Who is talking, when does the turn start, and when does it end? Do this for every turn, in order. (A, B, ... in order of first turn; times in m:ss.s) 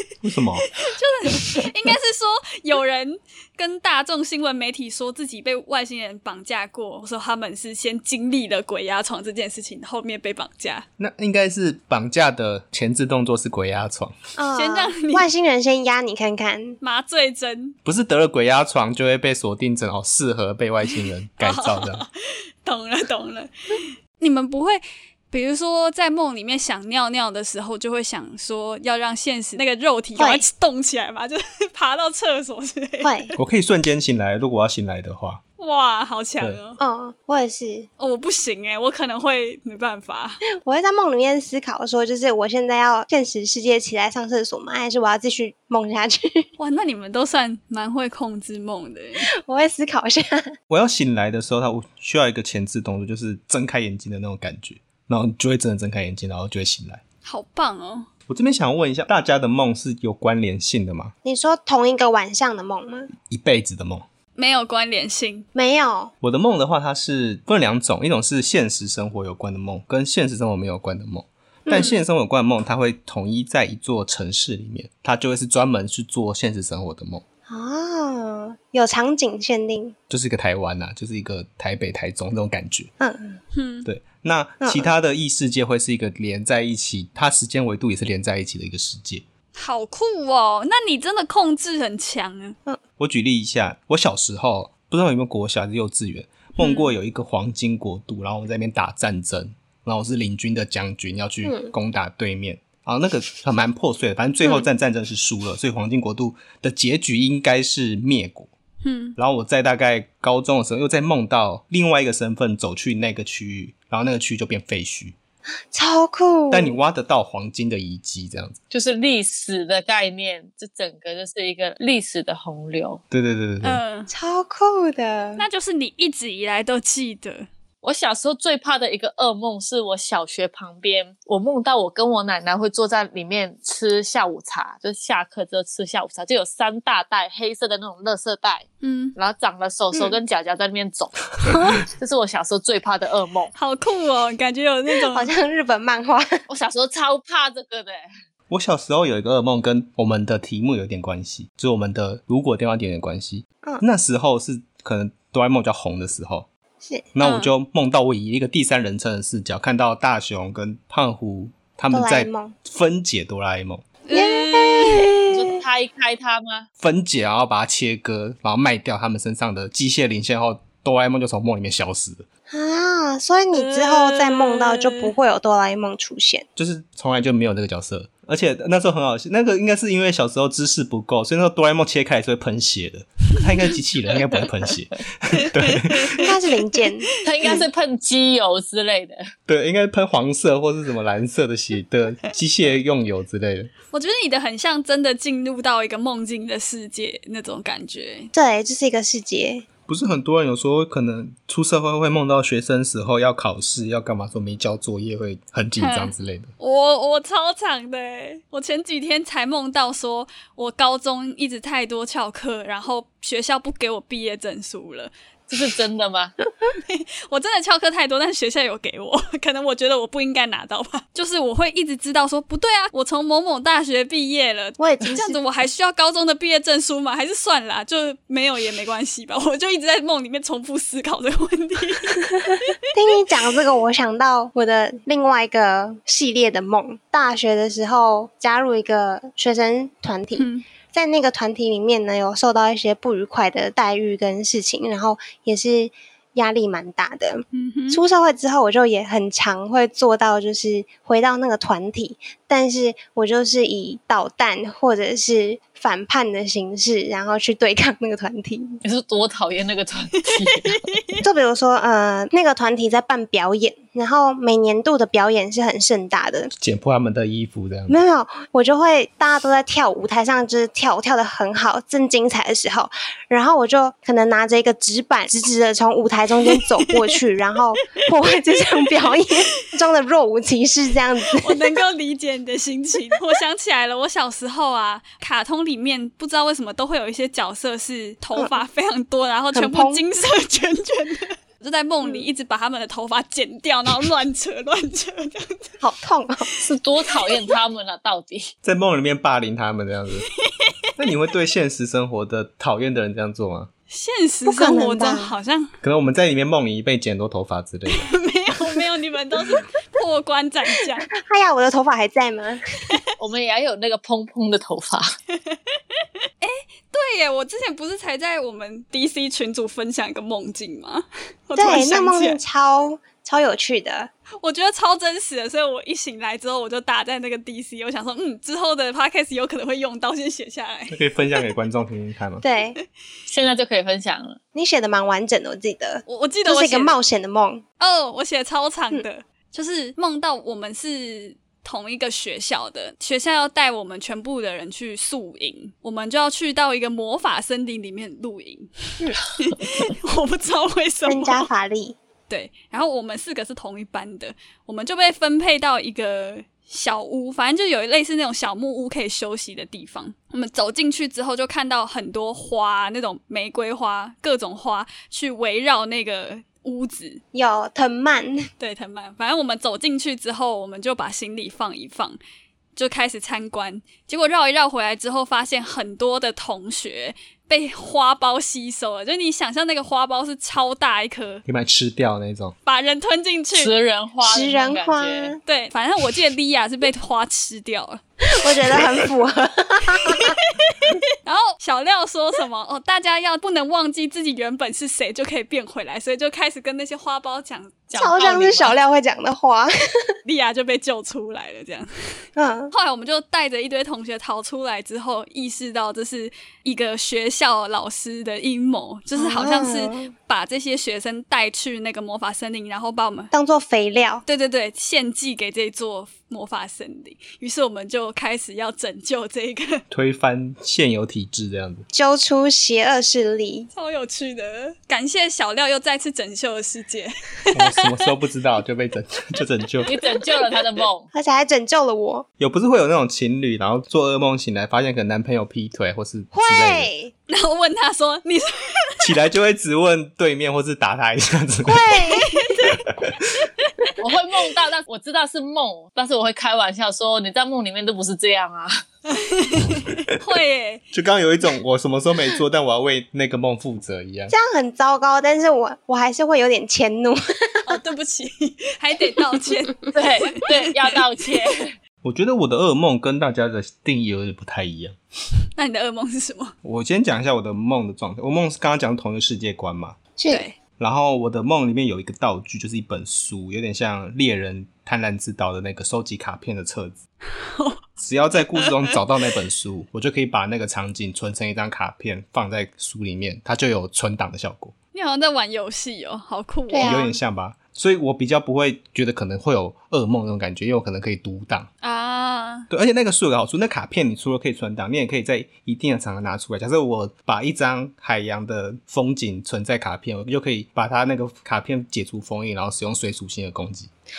0:00.2-0:00.7 A
0:00.8-0:10.9 B
0:11.0-0:14.2 A
0:14.4-0:16.8 C
0:14.6-0:15.3 B
0:16.8-0:17.8 B
0:17.8-0:22.0 A
0:21.4-0:22.1 B
0:22.6-0:33.4 B
0:30.2-0:30.4 C
0:33.0-0:33.3 C
0:33.4-0:35.4 A
0:35.6-0:36.8 B
0:36.8-0:37.9 C
0:38.0-0:40.4 B
0:40.6-0:46.5 C
0:46.6-0:49.3 B
0:49.4-0:50.5 C
0:50.7-0:57.0 A
0:57.2-0:58.1 B
0:58.3-1:01.1 A
1:01.2-1:03.1 C
1:03.3-1:04.0 A
1:04.4-1:05.5 B
1:05.6-1:06.1 C
1:06.2-1:17.2 A
1:11.7-1:12.0 C
1:11.7-1:12.0 B
1:17.5-1:20.0 C
1:20.1-1:22.9 A
1:23.0-1:23.4 C
1:23.5-1:23.9 B
1:23.8-1:29.2 A
1:24.6-1:24.9 C
1:29.6-1:32.6 B
1:33.0-1:48.5 A
1:36.6-1:36.9 B
1:41.4-1:41.7 C
1:48.8-1:49.2 B
1:49.2-1:55.2 A
1:55.7-1:56.8 C
1:56.5-1:58.6 A
1:58.7-2:03.0 D
2:03.1-2:03.8 A
2:03.6-2:04.1 B
2:04.1-2:05.4 C
2:05.4-2:07.5 B
2:07.8-2:23.5 D
2:18.8-2:19.2 B
2:21.4-2:21.8 B
2:23.6-2:25.3 B
2:25.1-2:26.4 C
2:26.5-2:28.0 D
2:28.5-2:36.5 A
2:37.1-2:43.9 A
2:37.2-2:37.5 B
2:41.9-2:42.6 C
2:44.1-2:45.1 B
2:44.1-2:45.6 C
2:45.3-2:46.7 D
2:46.8-2:52.3 A
2:52.5-2:56.5 C
2:53.5-2:55.1 B
2:56.6-3:06.3 A
3:05.3-3:06.3 B
3:06.2-3:07.1 C
3:07.2-3:09.2 D
3:09.5-3:13.7 A
3:13.9-3:18.3 B
3:18.3-3:19.7 C
3:19.9-3:26.5 A
3:25.8-3:35.1 B
3:35.5-3:36.3 D
3:36.8-3:52.7 B
3:44.8-3:45.4 C
3:52.4-4:18.8 C
4:00.4-4:00.6 B
4:07.5-4:08.0 B
4:18.8-4:20.8 D
4:20.3-4:21.2 B
4:21.2-4:26.5 C
4:26.6-4:28.0 A
4:27.9-4:41.7 C
4:36.5-4:37.1 B
4:41.4-4:55.8 B
4:49.5-4:50.0 C
4:55.8-4:56.5 C
4:56.6-4:58.5 D
4:58.6-5:00.3 A
5:01.0-5:03.7 A
5:03.9-5:05.7 B
5:04.5-5:05.3 C
5:05.8-5:08.1 A
5:07.9-5:11.1 B
5:11.2-5:12.6 C
5:13.2-5:15.1 D
5:16.4-5:22.4 B
5:21.6-5:24.1 C
5:24.4-5:31.0 B
5:30.9-5:32.4 A
5:32.4-5:32.8 C
5:33.3-5:34.4 D
5:34.5-5:37.6 C
5:36.1-5:37.0 B
5:37.8-5:51.5 B
5:51.1-5:52.0 C
5:52.3-6:07.2 B
6:07.3-6:08.5 C
6:08.6-6:12.2 B
6:12.8-6:21.4 B
6:21.5-6:22.6 A
6:22.7-6:23.7 B
6:23.5-6:25.4 D
6:24.2-6:25.4 C
6:25.5-6:28.0 B
6:28.3-6:30.4 C
6:30.1-6:37.9 B
6:37.9-6:38.8 D
6:38.0-6:40.1 C
6:40.2-6:41.9 B
6:42.4-6:42.7 C
6:42.7-6:53.3 B
6:49.2-6:50.1 C
6:53.3-6:54.2 C
6:54.3-6:59.8 B
6:59.9-7:01.9 A
7:01.9-7:03.7 C
7:03.8-7:07.8 B
7:07.5-7:09.9 A
7:09.8-7:11.1 D
7:11.1-7:12.3 C
7:12.4-7:16.9 A
7:16.3-7:17.1 C
7:17.3-7:18.9 B
7:19.0-7:22.0 A
7:21.6-7:22.3 C
7:22.2-7:22.8 B
7:22.7-7:23.1 A
7:23.4-7:23.9 B
7:24.0-7:28.8 D
7:29.1-7:30.8 B
7:30.9-7:34.3 A
7:34.3-7:37.8 C
7:37.7-7:40.9 B
7:39.9-7:41.8 D
7:42.0-7:45.0 A
7:45.6-7:46.6 B
7:46.6-7:50.0 A
7:50.2-7:50.4 C
7:50.3-7:50.6 B
7:50.8-7:57.0 A
7:57.5-7:57.8 B
7:58.0-8:04.7 A
8:04.9-8:07.1 B
8:06.7-8:07.1 C
8:06.8-8:11.7 A
8:11.8-8:12.7 B
8:12.7-8:23.9 A